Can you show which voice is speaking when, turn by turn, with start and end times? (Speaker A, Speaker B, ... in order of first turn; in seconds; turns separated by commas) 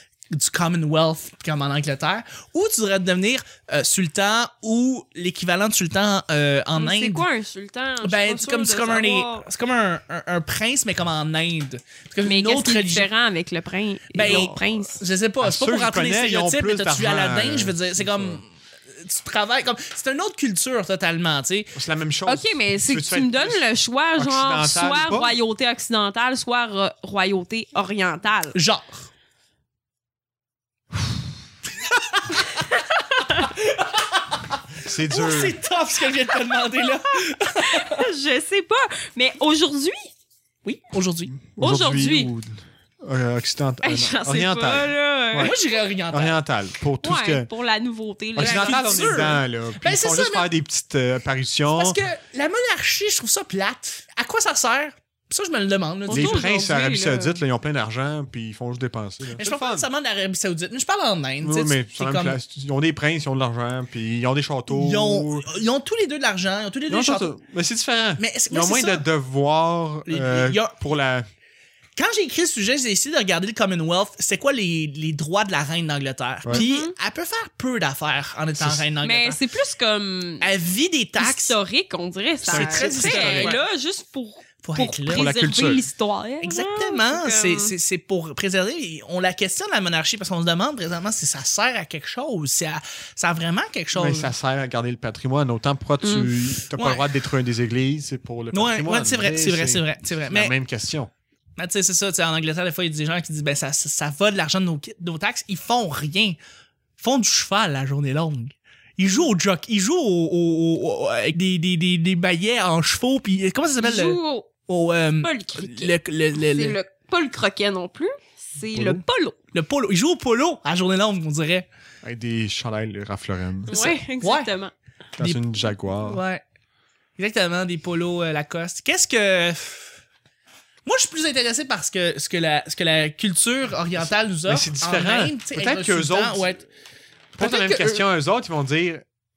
Speaker A: 0.3-7.2, Speaker B: 6.8-9.5, Speaker A: 8.0-13.1, Speaker B: 12.2-15.0, Speaker A: 14.1-21.7, Speaker C: 14.2-14.6, Speaker C: 15.4-18.4, Speaker C: 21.7-25.4, Speaker B: 22.3-28.6, Speaker A: 28.5-29.1, Speaker B: 32.6-33.5, Speaker A: 33.3-34.2, Speaker C: 34.8-35.6, Speaker A: 35.1-38.0, Speaker B: 36.3-40.1, Speaker A: 40.6-41.3, Speaker C: 41.4-45.5, Speaker B: 41.6-42.3, Speaker B: 43.8-45.5, Speaker A: 45.4-46.4, Speaker C: 46.1-47.5, Speaker B: 47.0-49.4, Speaker C: 48.4-52.0, Speaker A: 48.4-50.5, Speaker A: 51.7-56.5, Speaker B: 56.1-57.4, Speaker C: 56.1-59.9, Speaker A: 59.4-62.4, Speaker C: 61.4-65.5, Speaker A: 64.7-67.3, Speaker C: 66.9-71.3, Speaker A: 68.2-69.1, Speaker A: 70.1-70.8, Speaker A: 72.0-79.4, Speaker B: 76.5-76.9, Speaker C: 78.6-78.9, Speaker B: 79.0-80.5, Speaker A: 80.4-81.6, Speaker B: 81.2-87.7, Speaker A: 82.5-83.6, Speaker C: 82.5-83.6, Speaker A: 84.6-85.3, Speaker C: 85.1-85.8, Speaker A: 86.4-94.3, Speaker C: 93.9-101.1, Speaker B: 96.0-96.3, Speaker A: 96.7-97.2, Speaker A: 98.5-100.5, Speaker A: 101.6-106.4, Speaker A: 107.0-116.8, Speaker B: 113.8-114.5, Speaker B: 115.2-119.4, Speaker C: 118.7-119.0, Speaker A: 119.5-121.7, Speaker C: 122.0-123.8, Speaker B: 123.7-124.7, Speaker A: 123.7-124.5, Speaker C: 125.2-126.2, Speaker A: 125.2-126.4, Speaker A: 127.2-129.9, Speaker A: 130.8-136.6, Speaker C: 134.4-136.6, Speaker C: 137.4-139.1, Speaker A: 137.4-138.1